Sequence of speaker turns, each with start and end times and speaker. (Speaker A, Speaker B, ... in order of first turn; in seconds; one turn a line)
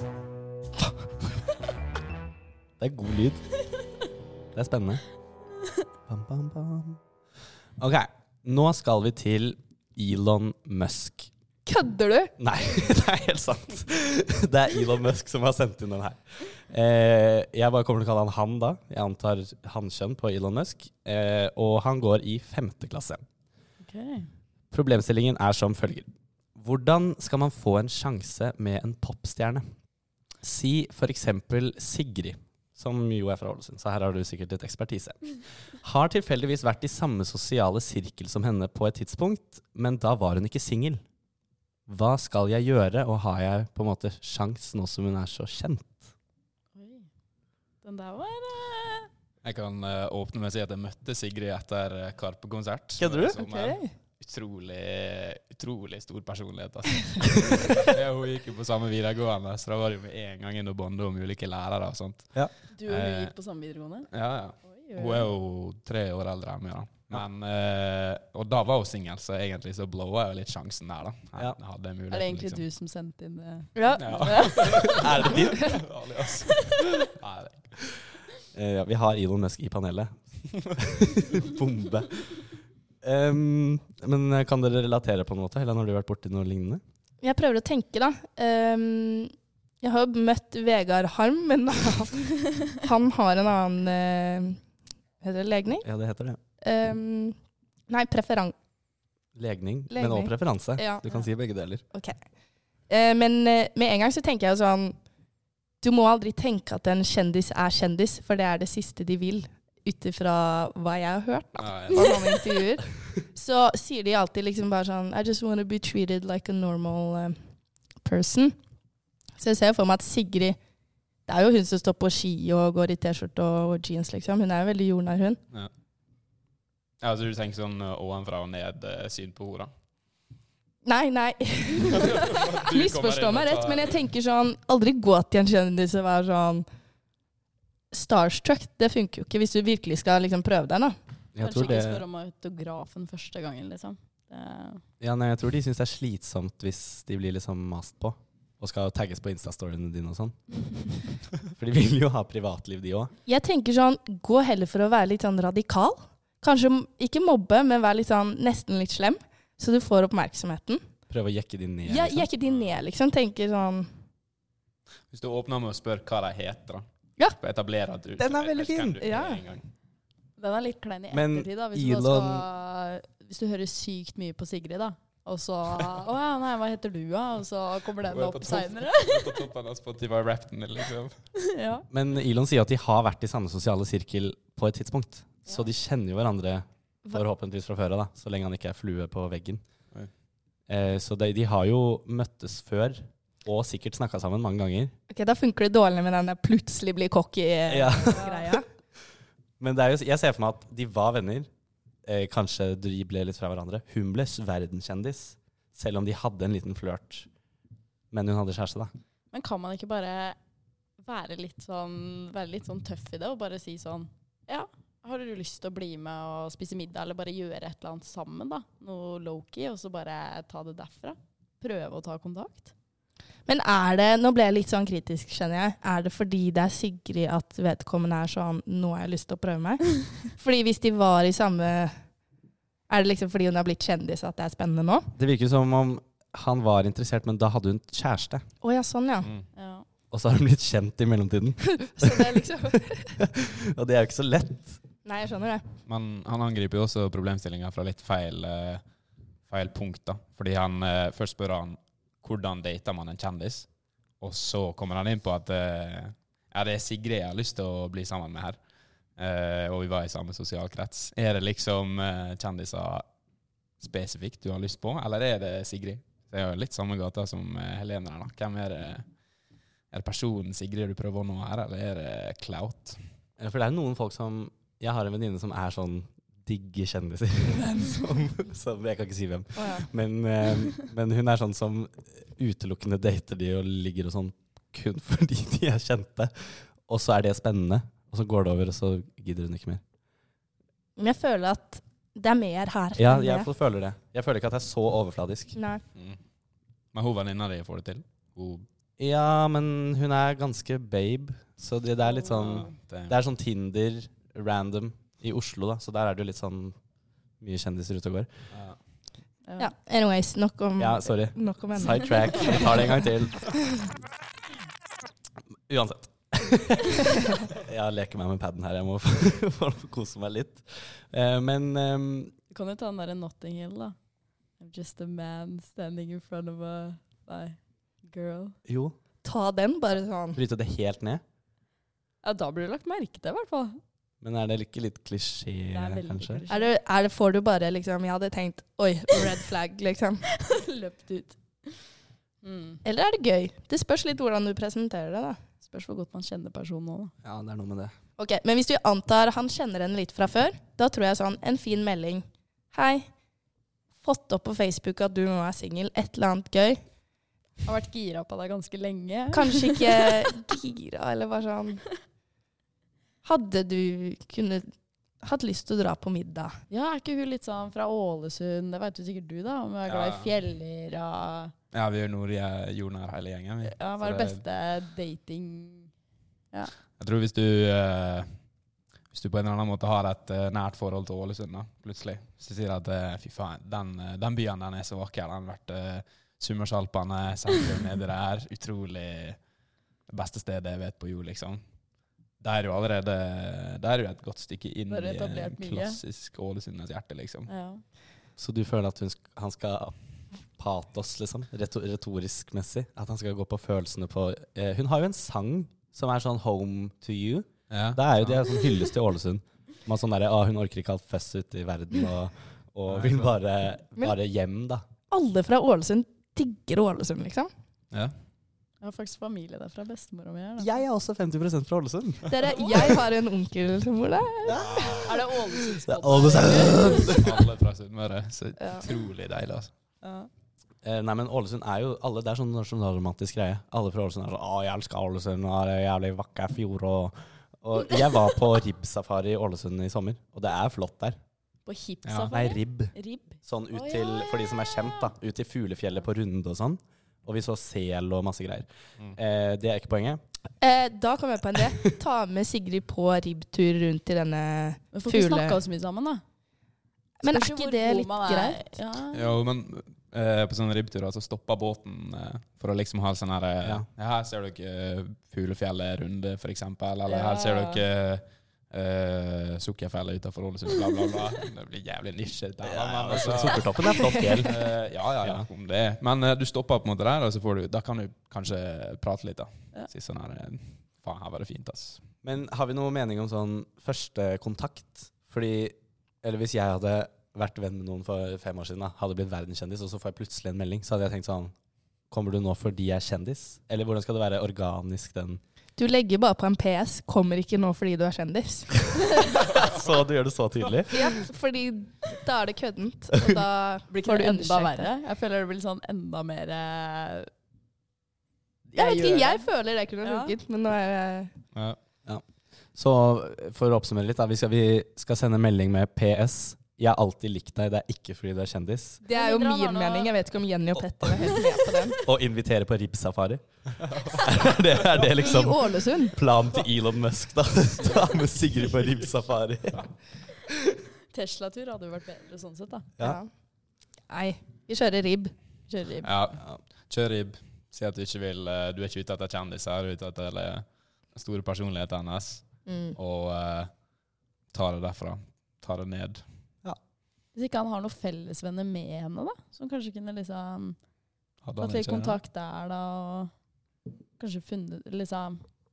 Speaker A: 2.8-3.4
Speaker A: 4.5-5.0
Speaker A: 6.1-7.0
Speaker A: 7.8-11.3
Speaker B: 11.7-12.3
Speaker A: 12.4-23.2
Speaker C: 23.8-24.3
Speaker A: 24.7-29.6
Speaker A: 30.4-41.0
Speaker A: 41.9-46.1
Speaker C: 46.8-47.1
Speaker C: 47.8-49.1
Speaker D: 49.4-62.3
Speaker A: 53.0-53.4
Speaker B: 53.4-53.9
Speaker C: 62.8-64.1
Speaker D: 62.9-63.3
Speaker D: 64.1-72.6
Speaker C: 64.7-65.3
Speaker C: 72.1-75.1
Speaker B: 73.8-74.7
Speaker D: 74.0-77.8
Speaker A: 74.6-75.8
Speaker B: 75.5-75.8
Speaker A: 78.5-80.2
Speaker A: 80.7-82.4
Speaker A: 83.0-86.8
Speaker B: 87.2-94.6
Speaker B: 95.2-95.8
Speaker A: 95.8-96.4
Speaker B: 96.6-97.4
Speaker B: 97.9-98.5
Speaker A: 99.4-101.8
Speaker B: 99.9-101.0
Speaker B: 101.9-102.2
Speaker B: 102.9-105.0
Speaker B: 105.8-117.4
Speaker D: 111.6-112.3
Speaker B: 118.0-118.6
Speaker B: 119.4-120.6
Speaker B: 121.3-125.4
Speaker D: 127.0-129.7
Speaker B: 130.8-136.7
Speaker D: 131.9-134.0
Speaker B: 137.9-141.0
Speaker A: 141.3-142.0
Speaker C: 141.4-144.8
Speaker A: 145.0-150.3
Speaker A: 151.5-153.1
Speaker B: 153.3-160.8
Speaker A: 161.1-162.3
Speaker B: 161.8-163.9
Speaker D: 165.1-169.7
Speaker A: 168.2-169.0
Speaker B: 169.0-169.4
Speaker C: 170.4-179.5
Speaker A: 171.1-172.4
Speaker D: 178.0-181.2
Speaker C: 181.4-181.8
Speaker A: 181.9-189.6
Speaker A: 190.7-194.9
Speaker B: 195.1-198.7
Speaker A: 197.7-198.3
Speaker C: 198.2-198.6
Speaker A: 199.6-201.5
Speaker A: 202.1-207.3
Speaker A: 208.1-208.9
Speaker C: 209.3-210.4
Speaker C: 211.0-222.7
Speaker B: 223.5-231.9
Speaker B: 232.9-235.1
Speaker A: 235.2-238.4
Speaker B: 238.6-239.3
Speaker C: 239.6-239.9
Speaker A: 240.1-244.8
Speaker B: 241.6-243.2
Speaker B: 245.1-245.7
Speaker D: 245.9-248.8
Speaker D: 249.5-253.7
Speaker D: 254.2-258.6
Speaker D: 259.2-263.1
Speaker D: 263.8-269.1
Speaker D: 269.9-273.0
Speaker A: 273.4-289.8
Speaker B: 279.6-279.9
Speaker B: 291.0-293.5
Speaker A: 293.0-295.6
Speaker B: 295.6-295.8
Speaker D: 296.9-298.7
Speaker A: 299.0-306.8
Speaker C: 302.1-302.6
Speaker D: 302.2-303.2
Speaker A: 307.4-308.3
Speaker D: 308.5-308.8
Speaker C: 309.5-309.7
Speaker B: 309.6-312.8
Speaker A: 310.8-313.5
Speaker A: 315.7-322.3
Speaker C: 322.5-324.0
Speaker C: 324.6-328.6
Speaker A: 328.7-328.9
Speaker B: 329.2-330.4
Speaker A: 330.4-331.2
Speaker C: 332.2-333.8
Speaker A: 334.2-336.4
Speaker C: 335.7-336.7
Speaker B: 336.5-340.2
Speaker C: 340.3-341.8
Speaker C: 342.4-342.8
Speaker B: 342.9-345.4
Speaker C: 345.6-347.1
Speaker A: 347.2-347.9
Speaker B: 348.2-353.1
Speaker B: 354.0-356.8
Speaker C: 357.6-360.2
Speaker B: 359.3-361.8
Speaker B: 363.2-364.7
Speaker B: 365.2-366.6
Speaker C: 366.7-371.5
Speaker D: 369.9-370.3
Speaker D: 371.7-374.4
Speaker C: 373.6-375.9
Speaker D: 377.0-378.3
Speaker D: 379.1-389.4
Speaker D: 390.1-391.6
Speaker D: 392.4-397.5
Speaker C: 394.9-396.0
Speaker C: 397.5-397.8
Speaker A: 398.4-399.9
Speaker A: 400.6-414.9
Speaker D: 407.7-408.4
Speaker D: 412.9-413.3
Speaker B: 415.1-417.5
Speaker C: 418.8-420.7
Speaker A: 420.6-422.4
Speaker B: 422.3-425.0
Speaker C: 422.6-422.9
Speaker A: 424.4-427.4
Speaker D: 424.5-425.1
Speaker C: 425.0-427.2
Speaker D: 427.1-429.7
Speaker C: 430.0-430.3
Speaker A: 430.8-441.2
Speaker C: 441.7-445.1
Speaker D: 442.1-442.3
Speaker A: 442.3-450.2
Speaker B: 450.6-455.6
Speaker C: 454.9-456.2
Speaker B: 457.2-458.7
Speaker C: 457.2-459.4
Speaker D: 459.1-482.0
Speaker C: 467.1-467.8
Speaker A: 472.6-474.6
Speaker A: 482.2-491.5
Speaker A: 492.1-495.4
Speaker B: 495.8-499.6
Speaker A: 499.4-501.1
Speaker B: 500.9-504.9
Speaker C: 503.9-507.3
Speaker C: 508.7-509.5
Speaker B: 508.8-511.3
Speaker C: 510.0-510.4
Speaker A: 512.8-519.0
Speaker C: 519.0-520.2
Speaker B: 519.1-522.0
Speaker C: 521.4-521.7
Speaker A: 522.0-523.4
Speaker D: 523.9-524.2
Speaker A: 524.0-529.9
Speaker B: 525.1-526.2
Speaker C: 531.1-532.9
Speaker B: 533.0-533.3
Speaker B: 534.1-535.3
Speaker C: 535.7-536.1
Speaker D: 536.0-543.7
Speaker B: 542.7-543.0
Speaker D: 544.5-546.2
Speaker C: 547.3-550.8
Speaker D: 551.4-552.2
Speaker C: 551.6-553.3
Speaker C: 554.2-555.4